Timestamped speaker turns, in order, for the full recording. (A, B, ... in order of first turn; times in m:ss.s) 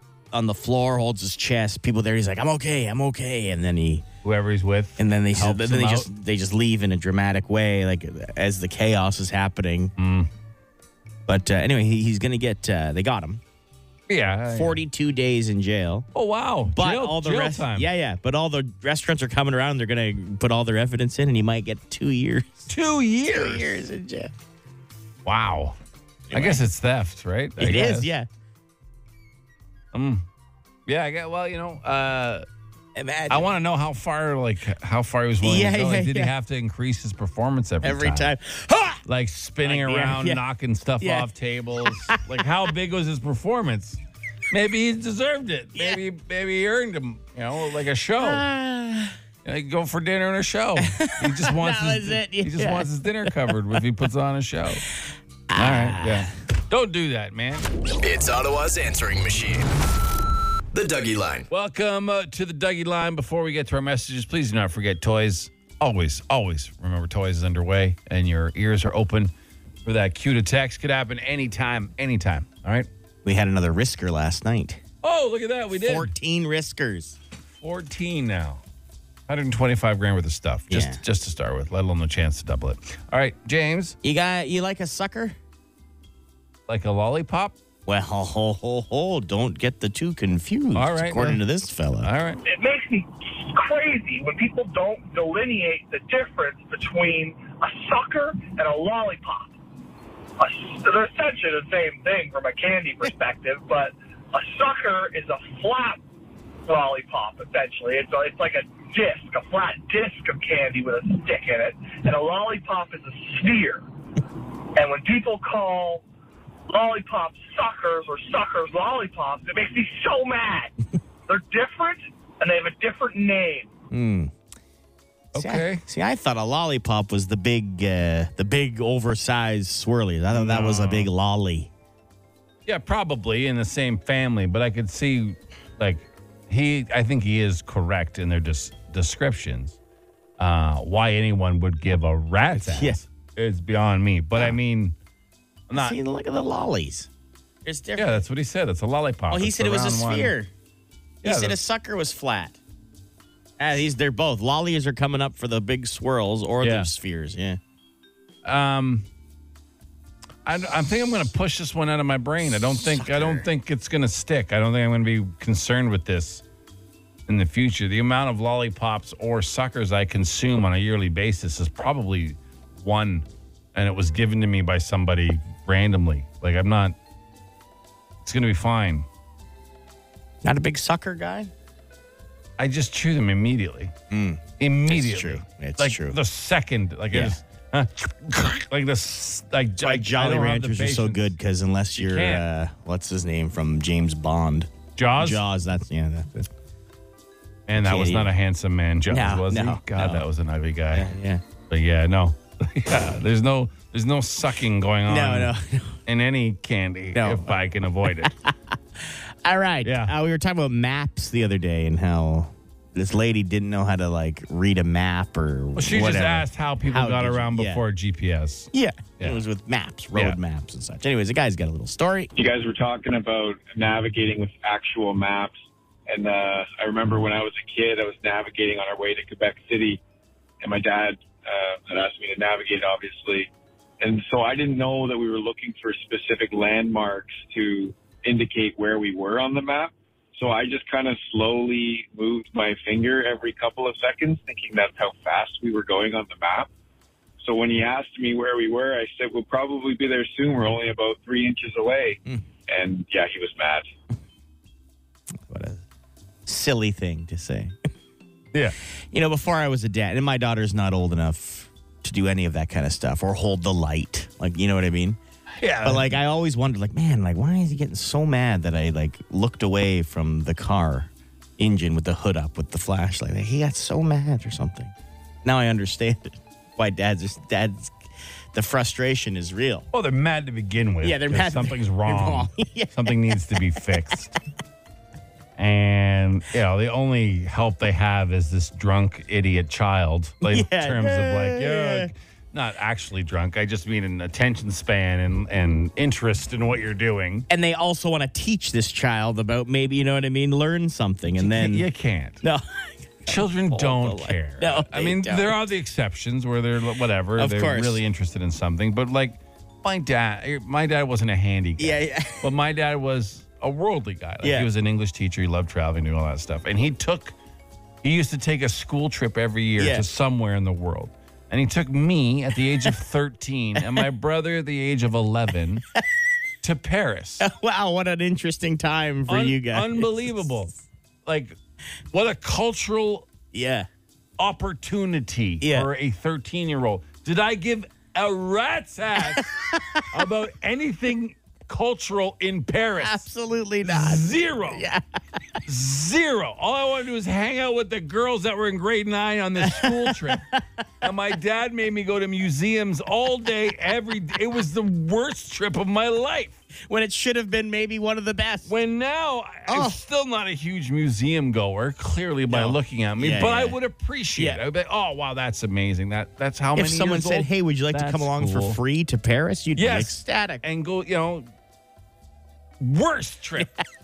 0:00.3-0:04.0 A
0:04.2-0:06.1 B
0:05.0-0:09.9 A
0:10.0-0:10.3 B
0:11.3-0:13.4 A
0:14.1-0:14.8 B
0:14.5-0:16.1 A
0:16.1-0:17.9 B
0:16.7-0:22.7 A
0:22.7-0:23.8 B
0:23.3-0:24.3 A
0:25.2-0:25.8 B
0:26.3-0:26.6 A
0:26.3-0:28.1 B
0:27.6-0:28.3 A
0:29.9-0:30.2 B
0:30.9-0:32.4 B
0:32.9-0:33.5 A
0:33.3-0:38.3 B
0:35.4-0:36.3 A
0:37.8-0:39.0 A
0:39.0-0:44.0 B
0:39.6-0:40.4 A
0:41.0-0:41.3 A
0:41.8-0:42.4 A
0:44.5-0:48.4 B
0:45.8-0:46.0 A
0:48.2-0:49.2 A
0:49.4-0:54.8 B
0:50.8-0:53.6 A
0:55.5-0:56.3 A
0:55.5-0:57.6 B
0:58.0-0:59.7 C
1:00.7-1:01.5 C
1:01.5-1:09.3 B
1:09.8-1:12.9 B
1:13.2-1:14.8 A
1:15.0-1:16.1 B
1:15.8-1:17.2 A
1:17.6-1:18.6 B
1:19.3-1:24.0 B
1:20.7-1:21.0 A
1:24.0-1:25.4 A
1:26.7-1:27.6 B
1:27.8-1:32.1 A
1:30.7-1:31.4 B
1:32.0-1:32.4 B
1:32.4-1:39.5 D
1:40.4-1:46.0 D
1:46.6-1:53.8 D
1:54.7-1:56.0 D
1:56.7-2:00.7 D
2:01.3-2:03.7 D
2:03.9-2:04.3 A
2:05.3-2:05.8 B
2:05.3-2:11.7 A
2:10.3-2:11.1 B
2:12.6-2:19.8 B
2:20.4-2:24.9 B
2:22.5-2:23.0 A
2:25.7-2:26.0 B
2:25.7-2:27.1 A
2:27.6-2:28.2 A
2:28.0-2:30.3 B
2:29.3-2:30.5 A
2:31.2-2:31.6 B
2:31.2-2:32.6 A
2:33.6-2:37.6 A
2:36.6-2:36.9 B
2:38.4-2:39.0 B
2:40.4-2:46.4 B
2:42.8-2:43.4 A
2:47.3-2:56.9 B
2:58.2-2:59.0 B
3:00.4-3:01.5 A
3:02.6-3:03.9 B
3:04.1-3:06.2 A
3:04.6-3:11.3 B
3:07.1-3:07.4 A
3:09.8-3:16.5 A
3:12.0-3:12.4 B
3:15.0-3:15.4 B
3:17.7-3:21.1 B
3:17.8-3:18.3 A
3:19.1-3:20.2 A
3:20.9-3:21.4 A
3:21.7-3:25.5 B
3:25.1-3:26.0 A
3:26.0-3:28.3 B
3:27.1-3:27.6 A
3:28.1-3:37.8 A
3:29.8-3:30.1 B
3:35.8-3:39.4 B
3:38.7-3:42.3 A
3:42.4-3:45.5 E
3:46.1-3:50.0 E
3:50.6-4:06.7 E
4:07.4-4:13.9 E
4:15.3-4:15.8 A
4:16.4-4:17.8 A
4:19.1-4:25.2 A
4:25.6-4:26.1 B
4:25.8-4:38.0 A
4:38.5-4:39.9 A
4:39.9-4:44.4 B
4:41.0-4:43.9 A
4:45.6-4:57.5 B
4:50.4-4:52.1 A
4:57.5-5:01.8 A
5:01.4-5:02.4 B
5:02.4-5:05.6 A
5:03.3-5:17.3 B
5:07.4-5:08.0 A
5:11.8-5:12.5 A
5:14.4-5:14.7 A
5:18.0-5:25.8 B
5:19.8-5:20.1 A
5:23.8-5:24.1 A
5:26.6-5:27.4 B
5:27.4-5:30.5 A
5:29.3-5:30.7 B
5:31.2-5:31.6 B
5:32.1-5:33.3 B
5:33.5-5:33.9 A
5:34.4-5:39.5 B
5:35.6-5:35.9 A
5:39.2-5:40.0 A
5:40.1-5:43.3 B
5:43.0-5:45.6 A
5:43.8-5:44.9 B
5:45.6-5:50.5 B
5:49.6-5:50.6 A
5:51.0-5:56.6 B
5:56.8-5:58.7 A
5:58.7-6:08.8 B
5:59.7-6:00.0 A
6:02.5-6:03.8 A
6:04.4-6:04.6 A
6:06.8-6:10.6 A
6:09.8-6:11.5 B
6:12.8-6:13.8 B